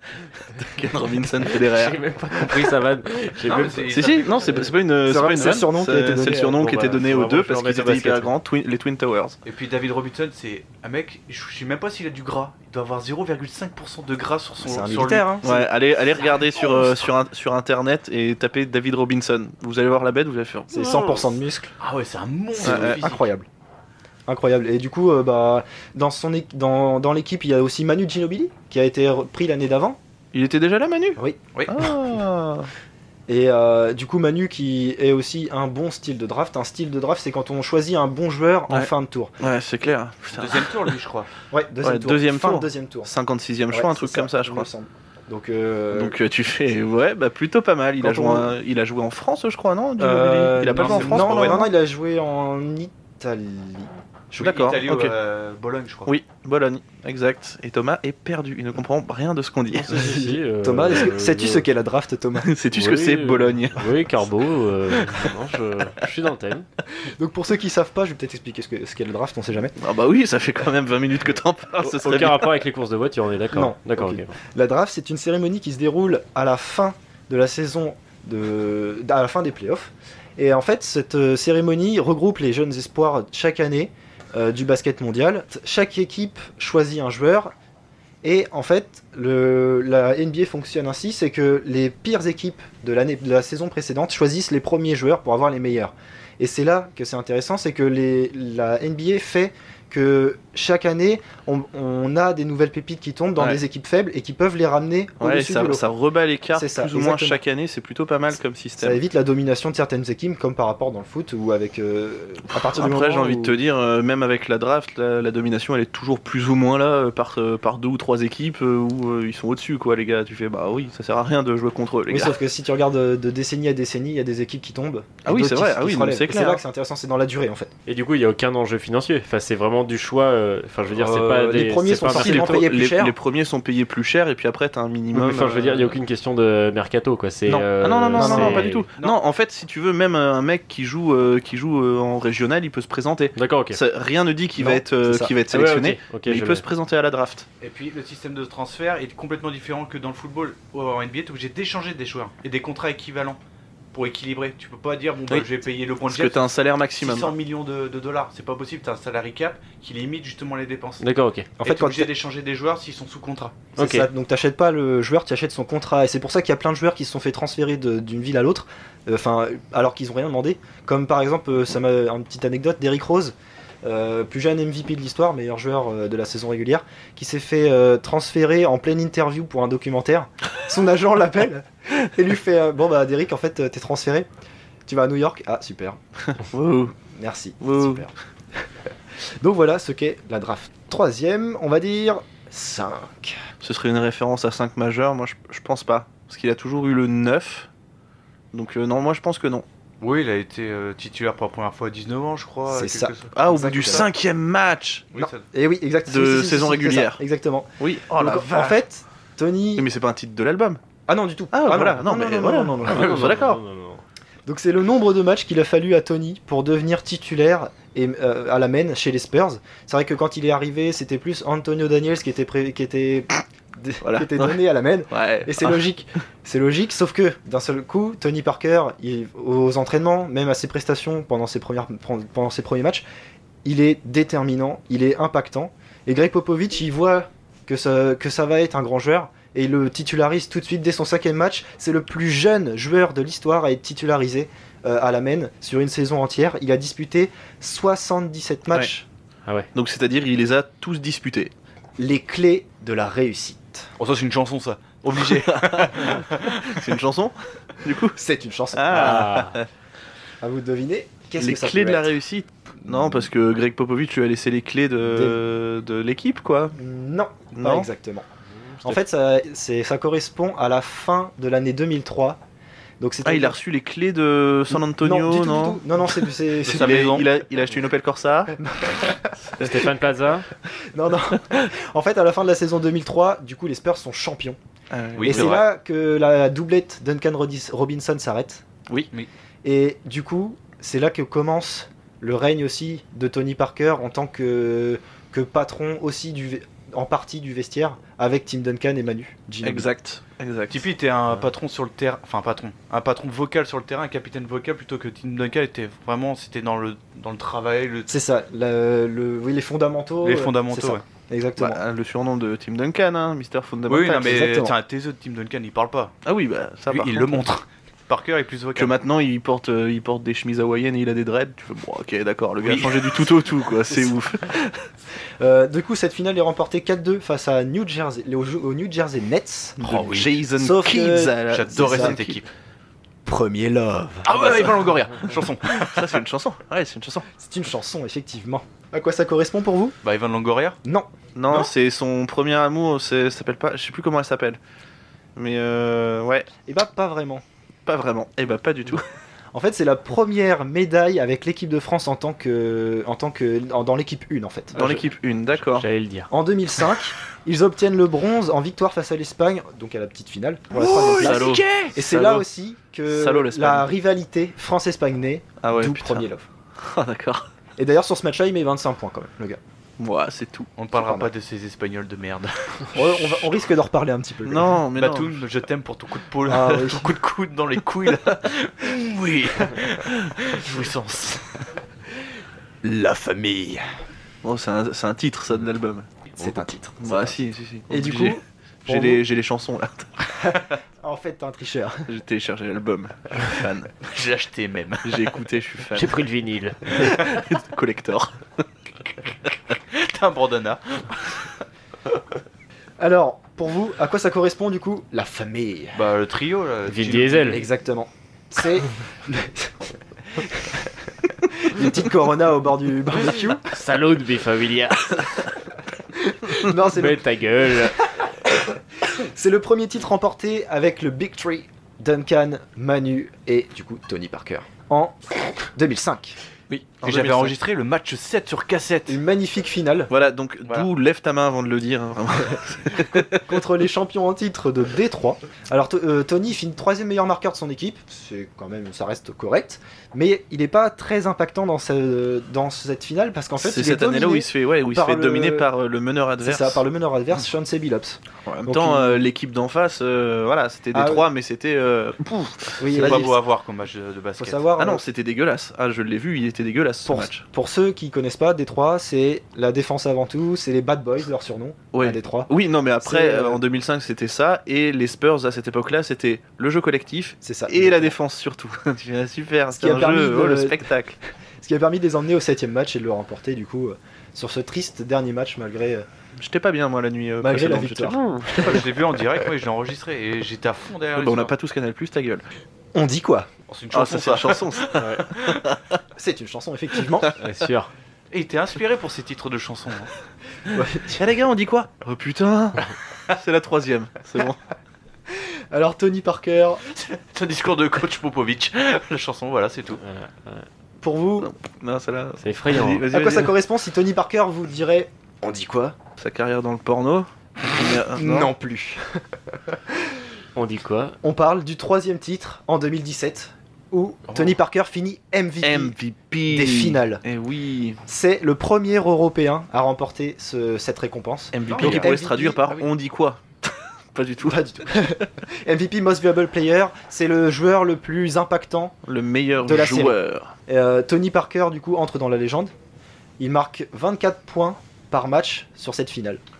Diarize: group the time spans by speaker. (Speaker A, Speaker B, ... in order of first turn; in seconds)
Speaker A: 0.6-2.5, 3.6-9.4, 15.4-21.3, 22.6-23.0, 30.3-32.7, 38.7-40.7, 41.8-44.7, 45.9-51.7, 54.4-55.1, 56.1-59.9, 62.4-63.9, 69.8-72.5, 105.2-109.0, 112.5-122.3, 125.2-126.6, 132.1-136.0, 137.8-147.5, 156.1-157.3, 186.3-186.9, 187.6-188.0, 193.6-197.7, 198.5-199.7, 203.3-205.1, 206.1-207.2, 207.8-208.8, 209.8-210.8, 211.5-213.6, 224.0-224.6, 225.1-225.8, 249.7-251.5, 255.4-258.2, 258.7-259.7, 261.4-266.8, 267.5-267.9, 273.2-275.8, 276.6-278.5, 284.9-285.7, 299.6-300.8, 311.6-314.6, 316.2-317.4, 318.8-324.8, 329.9-332.4, 335.7-337.3, 341.4-344.6, 345.4-346.5, 347.9-349.0, 354.8-355.9, 360.7-362.5, 363.1-363.9, 365.6-366.3, 366.8-367.5, 370.0-370.7, 374.4-375.4, 384.4-386.1, 387.0-390.1, 392.1-393.9, 395.0-396.2, 397.0-398.4, 426.7-427.6, 430.1-433.4, 443.6-446.8, 448.5-453.3, 454.8-457.4, 461.9-471.2, 476.4-478.8, 481.1-482.4, 483.9-486.0, 491.2-494.6, 501.4-503.5, 506.2-508.5, 515.6-518.0, 521.5-524.9, 529.1-530.5
Speaker B: 1.6-4.0, 6.5-8.3, 59.9-61.6, 62.7-66.7, 71.8-74.3, 127.9-132.6, 135.1-138.9, 143.4-143.8, 145.5-146.6, 161.0-161.5, 163.8-164.1, 212.8-214.0, 258.9-259.5, 279.6-280.5, 355.6-356.3, 395.9-397.2, 406.9-407.6, 413.7-415.5, 416.8-418.1, 485.0-485.3, 487.4-487.9, 500.0-500.7, 502.4-503.4, 510.6-511.2
Speaker C: 3.4-4.7, 9.4-15.3, 21.8-23.2, 40.4-41.3, 50.8-51.6, 54.4-56.1, 147.6-153.4, 153.9-161.1, 161.6-163.7, 200.0-204.0, 205.1-205.4, 254.0-256.7, 276.7-277.3, 285.2-285.6, 300.7-308.1, 310.2-311.0, 313.9-316.1, 316.9-319.0, 322.6-323.1, 329.8-330.3, 331.5-332.5, 334.2-336.1, 340.0-340.8, 361.2-361.5, 370.8-372.9, 374.9-381.7, 394.0-395.3, 399.9-401.5, 405.9-407.6, 427.0-429.2, 452.9-454.6, 478.6-481.5, 483.7-484.9, 488.3-490.1, 496.9-500.0, 514.3-514.5, 521.7-522.2
Speaker D: 5.0-6.6, 14.6-15.7, 20.7-21.7, 22.6-23.5, 24.3-30.0, 33.3-39.3, 41.5-43.1, 43.7-46.2, 48.0-48.6, 50.0-54.6, 59.9-62.5, 67.0-69.8, 73.5-87.5, 88.2-105.8, 106.5-107.4, 108.8-113.5, 122.1-127.7, 130.9-133.2, 137.5-138.7, 144.6-145.3, 161.6-162.1, 163.8-184.3, 184.9-186.0, 187.1-188.1, 189.2-193.4, 202.7-204.1, 205.2-209.9, 211.1-213.3, 214.5-233.0, 233.6-249.1, 252.0-253.9, 258.2-259.4, 260.4-262.1, 262.9-263.2, 265.0-265.4, 266.8-268.3, 268.8-272.4, 273.0-273.6, 274.7-277.1, 278.6-279.3, 280.8-284.6, 285.2-288.6, 289.6-299.9, 308.1-311.8, 314.2-314.8, 325.4-332.2, 333.3-334.8, 337.4-340.0, 340.8-341.1, 346.7-347.4, 349.5-354.8, 356.3-366.5, 367.8-369.6, 371.0-371.3, 372.9-374.8, 376.4-377.1, 382.8-383.8, 386.4-389.2, 391.0-392.1, 403.0-406.0, 407.5-410.9, 411.5-413.6, 416.3-417.9, 418.6-426.4, 429.1-430.1, 433.3-445.7, 446.4-449.3, 450.9-451.3, 452.8-453.4, 454.4-455.0, 457.1-462.5, 463.0-463.6, 467.4-468.1, 469.7-470.9, 471.6-476.1, 477.4-478.2, 482.9-483.5, 486.2-487.3, 490.7-491.2, 495.3-496.8, 501.0-501.5, 503.1-506.0, 508.1-509.8, 511.2-516.0, 516.5-517.2, 518.1-522.6, 524.4-529.0, 529.6-532.7, 533.4-536.4